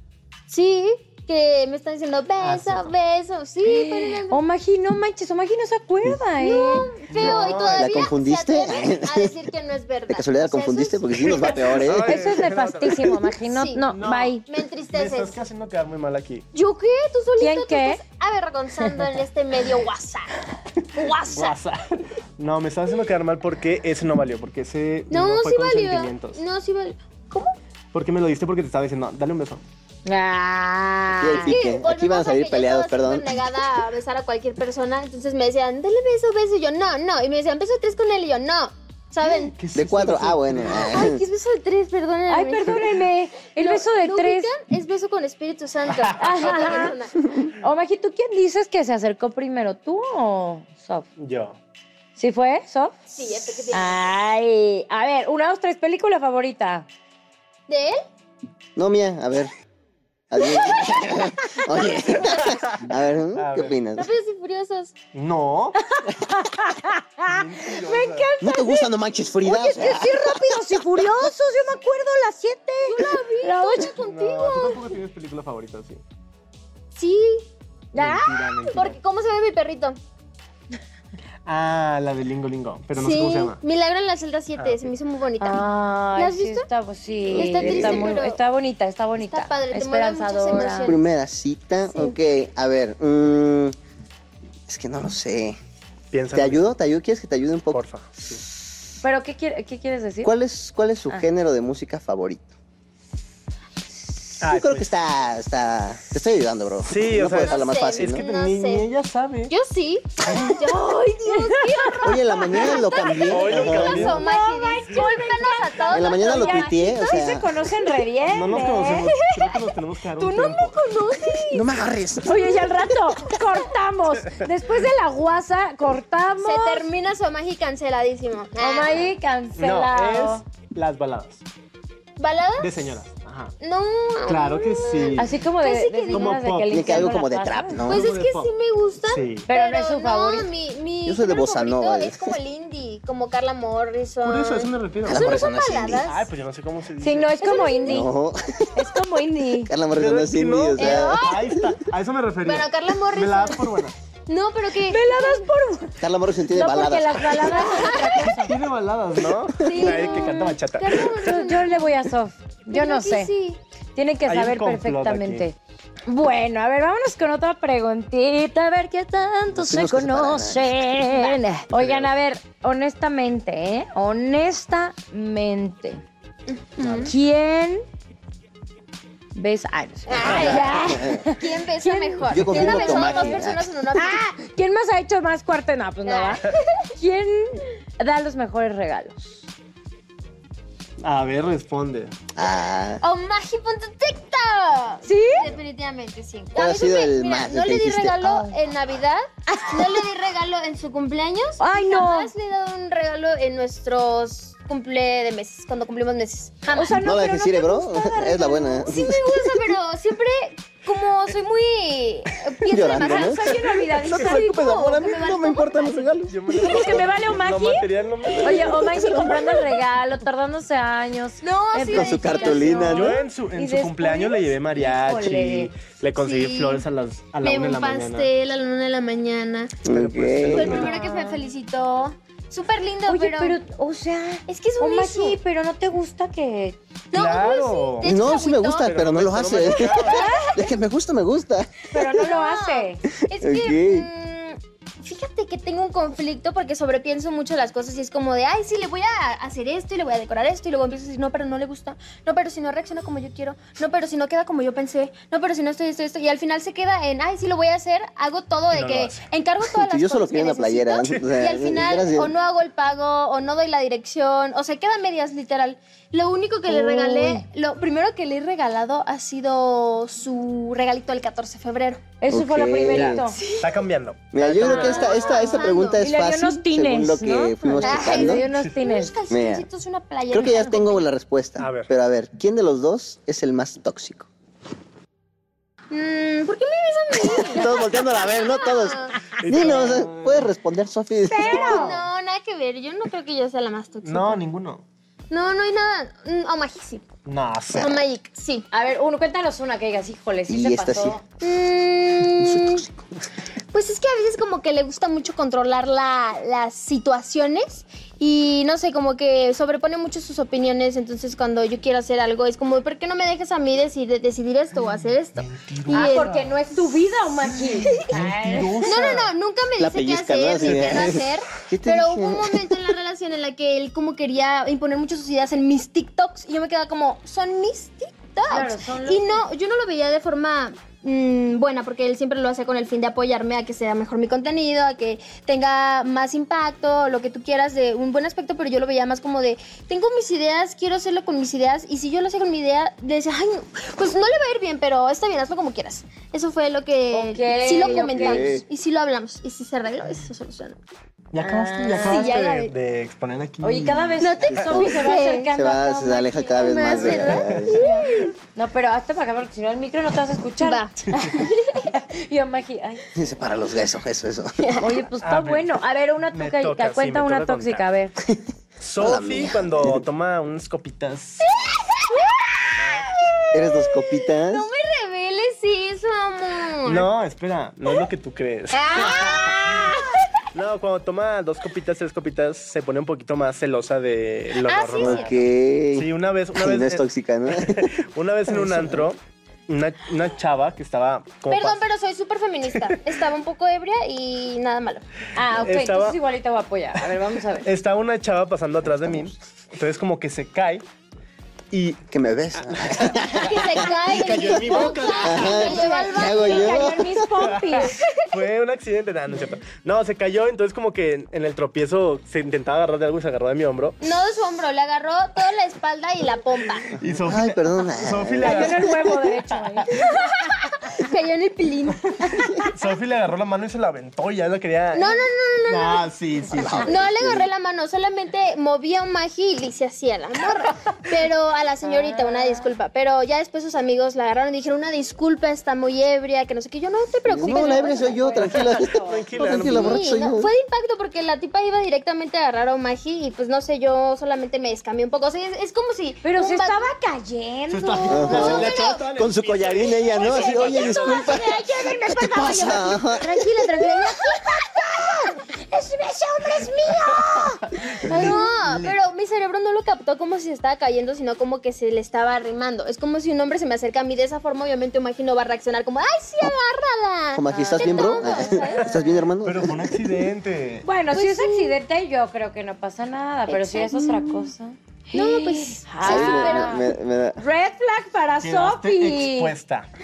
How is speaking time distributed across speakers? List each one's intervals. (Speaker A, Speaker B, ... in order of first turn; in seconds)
Speaker A: 0.5-4.4, 6.4-11.8, 13.4-13.9, 14.4-15.4, 16.5-21.6, 25.1-27.5, 31.3-39.5, 40.7-47.5, 53.1-54.0, 57.7-58.0, 60.6-61.0, 61.9-62.5, 63.9-64.9, 72.8-74.8, 76.9-77.5, 78.6-80.0, 83.0-85.6, 86.2-86.7, 87.3-88.4, 89.2-91.0, 91.9-92.2, 107.3-108.8, 109.5-117.3, 119.3-119.7, 120.7-121.7, 126.4-129.1, 132.2-132.8, 133.6-136.3, 137.8-146.3, 147.4-148.1, 150.8-151.6, 152.4-155.4, 157.4-158.3, 159.6-161.9, 162.7-163.6, 171.1-171.4, 176.5-177.1, 180.1-184.2, 186.0-186.9, 193.0-207.0, 208.2-216.1, 218.5-219.6, 221.4-222.9, 226.2-226.8, 227.4-229.8, 230.5-233.6, 234.5-235.4, 237.1-238.9, 239.7-240.6, 242.0-272.0, 273.3-273.8, 274.6-276.1, 277.8-281.0, 285.9-289.9, 291.3-294.4, 295.3-297.1, 297.8-298.7, 301.4-302.8, 303.7-318.1, 318.8-350.8, 352.0-352.7, 354.2-355.5, 356.6-358.3, 360.6-361.9, 364.6-365.0, 371.4-377.1, 378.7-380.4, 384.6-385.3, 391.5-395.0, 403.4-406.9, 407.8-408.1, 414.0-416.9, 419.9-422.6, 424.9-426.1, 426.9-438.2, 439.4-446.9, 448.0-449.0, 453.8-454.3, 458.1-469.2, 471.1-471.7, 473.5-474.5, 475.1-476.9
Speaker B: 2.4-2.9, 7.1-8.1, 11.2-13.2, 13.9-14.4, 14.9-16.5, 21.0-26.4, 27.9-29.6, 39.2-41.0, 45.9-46.3, 51.2-51.6, 62.6-63.8, 65.1-65.8, 67.2-68.3, 73.9-76.0, 77.9-79.0, 81.4-83.6, 84.6-84.9, 96.1-96.7, 97.7-98.4, 104.4-104.9, 106.8-109.5, 113.3-114.2, 118.3-120.8, 129.6-131.4, 132.6-133.5, 134.2-135.3, 136.1-137.1, 137.8-138.5, 139.0-139.5, 144.2-145.4, 146.0-147.3, 149.9-153.9, 158.2-161.5, 164.2-165.4, 171.7-172.1, 191.0-192.1, 216.3-218.9, 222.9-228.3, 229.9-230.9, 237.1-238.1, 238.8-240.3, 258.7-259.2, 261.0-261.3, 272.9-275.1, 281.6-281.9, 289.4-290.5, 294.0-294.8, 297.2-298.0, 315.4-316.4, 317.9-319.3, 320.6-321.1, 351.3-354.5, 357.2-357.7, 365.2-365.7, 366.3-367.8, 368.8-371.7, 372.6-373.1, 376.8-380.0, 380.5-385.4, 385.9-391.8, 392.7-393.0, 395.5-396.2, 397.6-400.8, 401.7-405.7, 407.4-414.0, 416.9-420.0, 422.1-427.0, 438.9-440.0, 447.7-451.4, 458.0-459.0, 468.9-470.9, 478.4-479.9
Speaker C: 3.6-7.3, 12.0-14.4, 17.4-18.0, 30.1-31.6, 42.3-44.5, 46.1-47.0, 47.6-51.1, 52.2-53.0, 53.7-56.9, 65.8-68.9, 69.4-73.9, 77.9-78.2, 85.4-91.0, 99.0-100.3, 111.2-113.3, 113.9-119.2, 120.2-121.4, 122.2-126.8, 128.6-130.4, 135.1-137.8, 139.5-140.5, 147.0-148.1, 148.7-149.7, 154.9-158.6, 161.2-163.3, 163.9-165.6, 166.1-176.0, 177.1-177.8, 179.3-186.4, 187.0-189.4, 195.0-195.5, 199.5-200.0, 201.6-202.3, 206.7-208.9, 212.9-214.6, 216.6-217.9, 218.4-225.7, 230.7-231.5, 233.1-236.8, 240.1-240.5, 241.9-243.0, 266.7-267.4, 272.2-273.4, 274.6-279.1, 291.3-292.0, 298.7-301.2, 315.9-318.9, 328.4-329.4, 347.1-348.5, 351.4-352.4, 353.6-363.0, 364.8-368.1, 395.3-397.7, 405.1-408.0, 418.4-420.0, 431.8-432.7, 437.4-439.3, 446.2-448.6, 450.1-458.5, 467.5-469.0, 470.8-479.5
Speaker D: 7.6-9.3, 10.1-12.3, 31.2-33.5, 39.7-41.2, 58.8-59.5, 60.3-64.1, 68.4-71.1, 87.3-88.2, 90.6-93.7, 94.7-95.6, 96.3-97.8, 100.2-102.5, 104.4-108.2, 110.2-110.6, 112.0-114.2, 115.9-117.6, 121.5-122.9, 136.7-138.1, 141.0-142.3, 145.0-146.0, 147.8-148.8, 149.7-151.6, 156.0-157.6, 169.5-170.8, 180.2-181.2, 182.3-183.7, 192.3-193.0, 196.5-198.5, 206.9-209.7, 212.7-217.0, 218.4-219.4, 221.8-223.2, 229.8-230.9, 238.0-241.8, 243.3-244.1, 259.7-262.3, 272.3-273.3, 274.3-278.4, 279.3-279.6, 280.3-284.3, 287.3-291.9, 300.5-301.2, 302.3-303.1, 319.8-322.7, 347.7-348.6, 354.5-357.8, 363.1-364.8, 368.2-370.0, 373.5-374.7, 385.0-389.1, 402.1-403.8, 405.2-407.3, 417.2-418.9, 426.5-427.5, 437.3-440.5, 448.1-453.5, 467.3-470.0, 476.0-477.4